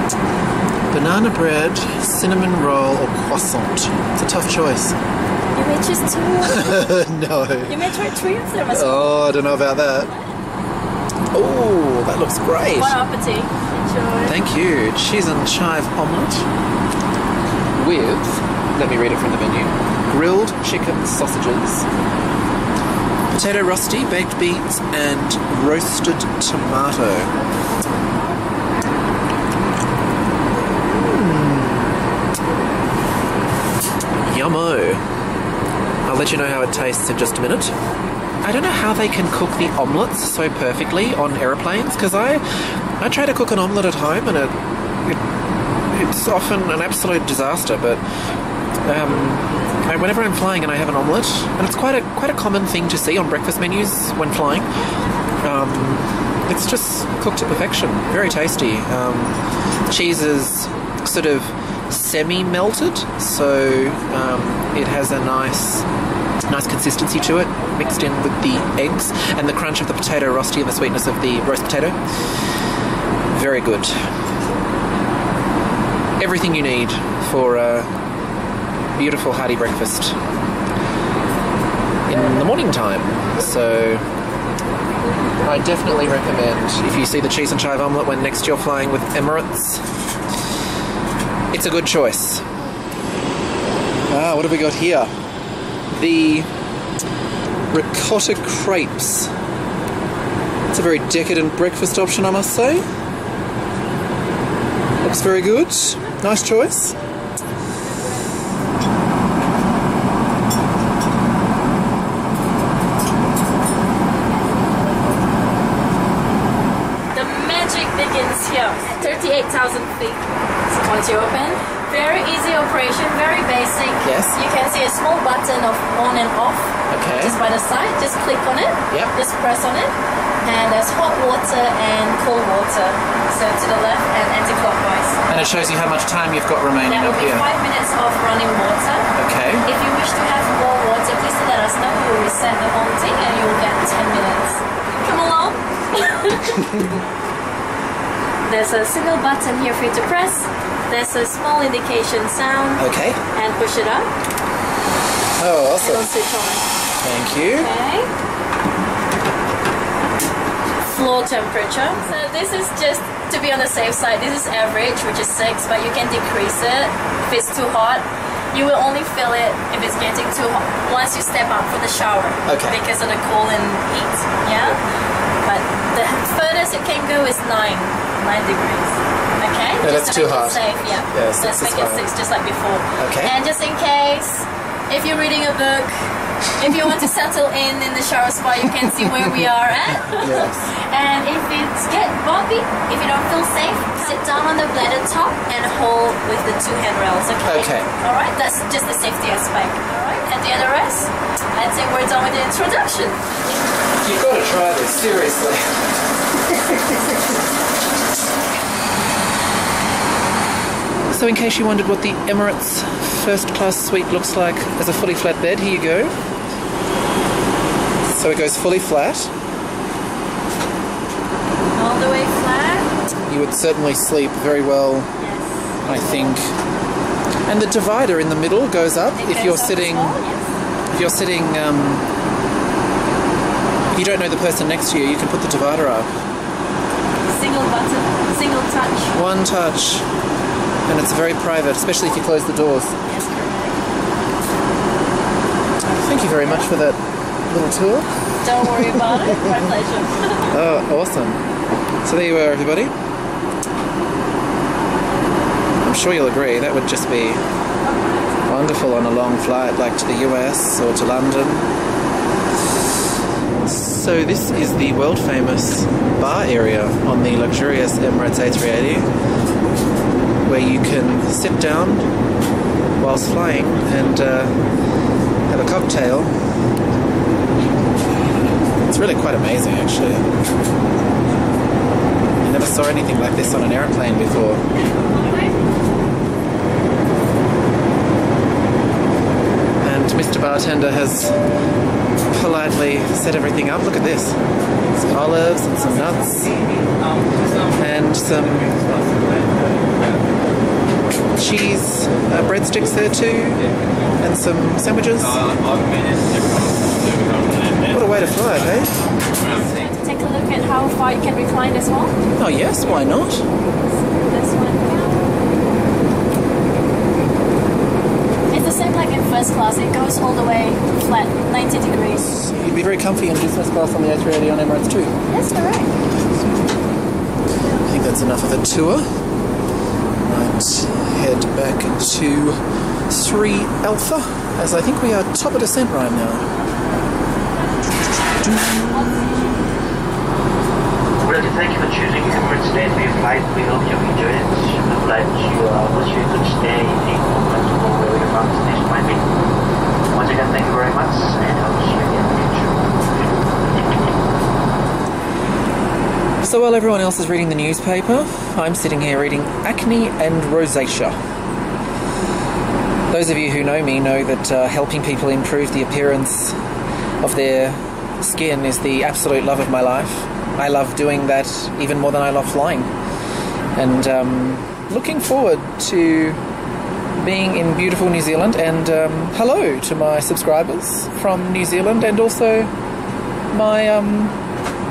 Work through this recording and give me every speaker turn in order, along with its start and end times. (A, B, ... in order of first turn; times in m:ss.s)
0:00.9-0:05.0 A
0:05.5-0:06.9 B
0:06.4-0:07.8 A
0:07.7-0:09.3 B
0:08.7-0:10.1 A
0:11.3-0:13.0 A
0:12.8-0:14.4 B
0:14.2-0:16.5 A
0:17.8-0:21.9 A
0:23.3-0:27.3 A
0:30.7-0:32.0 A
0:34.2-0:35.0 A
0:36.0-0:37.8 A
0:38.4-0:45.2 A
0:45.9-0:48.0 A
0:48.8-0:54.7 A
0:55.4-1:05.9 A
1:06.5-1:12.3 A
1:13.3-1:14.1 A
1:16.2-1:17.9 A
1:19.0-1:20.2 A
1:22.1-1:24.1 A
1:25.4-1:29.9 A
1:31.5-1:32.4 A
1:34.1-1:35.1 A
1:35.9-1:36.5 A
1:37.7-1:39.3 A
1:40.7-1:42.8 A
1:45.0-1:47.0 A
1:57.1-2:15.2 B
2:04.0-2:04.4 A
2:06.9-2:07.4 A
2:15.3-2:17.5 A
2:16.9-2:19.1 B
2:19.2-2:19.7 A
2:19.6-2:26.7 B
2:26.6-2:26.9 A
2:28.5-2:34.1 B
2:32.8-2:33.2 A
2:35.4-2:36.1 A
2:35.8-2:36.6 B
2:37.0-2:37.7 A
2:37.6-2:38.1 B
2:40.9-2:54.8 B
2:52.5-2:52.8 A
2:55.4-3:06.0 B
2:59.8-3:02.0 A
3:03.0-3:03.4 A
3:06.5-3:23.2 B
3:08.8-3:09.4 A
3:10.0-3:10.7 A
3:17.4-3:17.9 A
3:24.0-3:27.3 A
3:31.1-3:36.2 A
3:38.1-3:39.3 A
3:41.8-3:42.9 B
3:43.2-3:45.1 A
3:45.2-3:46.4 B
3:45.8-3:46.5 A
3:47.5-3:50.2 A
3:49.2-3:50.5 B
3:50.9-3:52.1 A
3:53.9-3:56.1 A
3:57.3-3:59.2 B
3:59.1-4:00.1 A
4:00.9-4:03.0 A
4:03.1-4:03.8 B
4:05.9-4:08.1 A
4:08.4-4:10.5 B
4:08.6-4:09.6 A
4:10.5-4:11.4 A
4:12.0-4:12.9 A
4:15.8-4:17.4 A
4:18.5-4:21.7 A
4:23.6-4:29.1 A
4:30.4-4:32.1 A
4:33.0-4:34.6 A
4:35.5-4:36.4 A
4:38.8-4:40.2 A
4:42.4-4:44.6 A
4:49.8-4:51.4 A
4:52.3-4:54.4 A
4:54.9-4:56.7 A
4:57.7-4:58.8 A
5:01.4-5:03.7 A
5:04.2-5:05.6 A
5:07.8-5:09.1 A
5:09.6-5:12.1 B
5:12.4-5:13.5 A
5:14.1-5:15.3 B
5:18.5-5:22.2 B
5:22.2-5:25.2 A
5:25.3-5:25.9 B
5:27.8-5:29.1 A
5:30.3-5:36.5 A
5:38.3-5:39.6 A
5:41.2-5:49.3 C
5:50.1-5:54.0 C
5:56.4-6:01.2 A
6:03.1-6:06.6 A
6:07.2-6:12.9 A
6:13.7-6:16.4 A
6:17.2-6:22.7 A
6:23.5-6:24.4 A